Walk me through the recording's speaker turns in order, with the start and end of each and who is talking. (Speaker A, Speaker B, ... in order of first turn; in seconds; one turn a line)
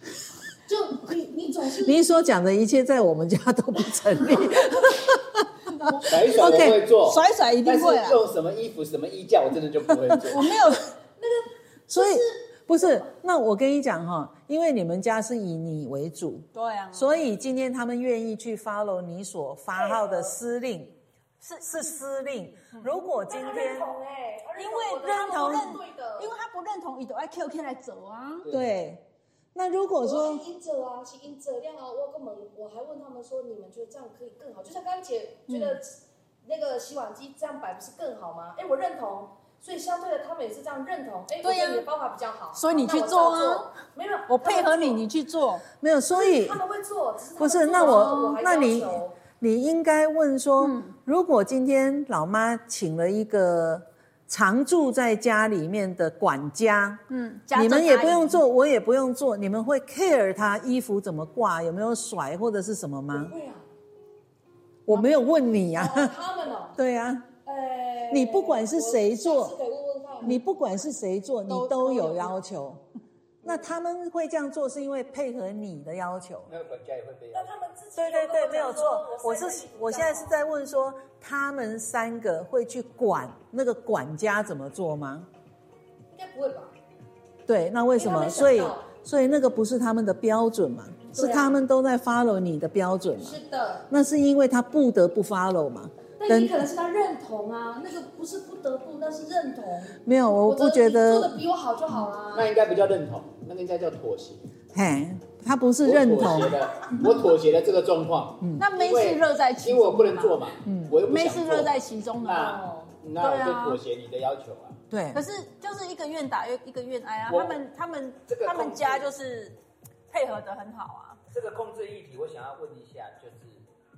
Speaker A: 0.7-2.0
Speaker B: 1.8-6.8
Speaker C: 5.8-8.2
Speaker D: 6.0-10.5
Speaker C: 10.3-10.9
Speaker A: 11.2-13.0
Speaker B: 11.9-20.9
Speaker C: 16.5-17.1
Speaker A: 19.7-20.3
Speaker C: 21.4-21.7
Speaker B: 21.6-23.9
Speaker A: 23.2-26.3
Speaker C: 24.6-28.4
Speaker B: 25.2-25.7
Speaker D: 28.4-28.7
Speaker B: 28.5-29.0
Speaker B: 29.5-30.4
Speaker A: 30.0-45.0
Speaker C: 35.5-35.8
Speaker C: 41.4-41.9
Speaker C: 42.5-43.7
Speaker C: 44.3-45.6
Speaker B: 45.8-46.6
Speaker A: 46.1-49.1
Speaker B: 47.4-57.0
Speaker C: 47.8-48.4
Speaker C: 50.6-50.9
Speaker C: 57.1-58.4
Speaker B: 57.5-63.3
Speaker A: 63.1-63.6
Speaker B: 64.8-66.1
Speaker A: 65.5-66.8
Speaker B: 66.8-67.3
Speaker A: 67.4-70.4
Speaker B: 68.1-69.5
Speaker B: 70.2-72.8
Speaker C: 71.5-72.3
Speaker A: 73.4-73.7
Speaker B: 73.4-76.5
Speaker D: 76.5-77.5
Speaker A: 77.3-80.3
Speaker B: 78.0-85.3
Speaker A: 86.1-86.7
Speaker B: 87.5-93.4
Speaker A: 87.9-88.8
Speaker A: 91.1-91.5
Speaker A: 93.2-93.9
Speaker B: 93.9-96.6
Speaker A: 96.2-102.5
Speaker B: 100.0-101.4
Speaker D: 102.3-104.4
Speaker B: 104.7-106.6
Speaker D: 105.8-114.8
Speaker C: 108.6-110.4
Speaker B: 110.6-111.0
Speaker C: 111.0-112.6
Speaker A: 112.3-112.9
Speaker C: 113.2-113.8
Speaker B: 114.9-115.2
Speaker C: 115.1-119.6
Speaker D: 117.3-117.6
Speaker D: 118.3-119.1
Speaker C: 120.1-121.2
Speaker D: 121.3-123.6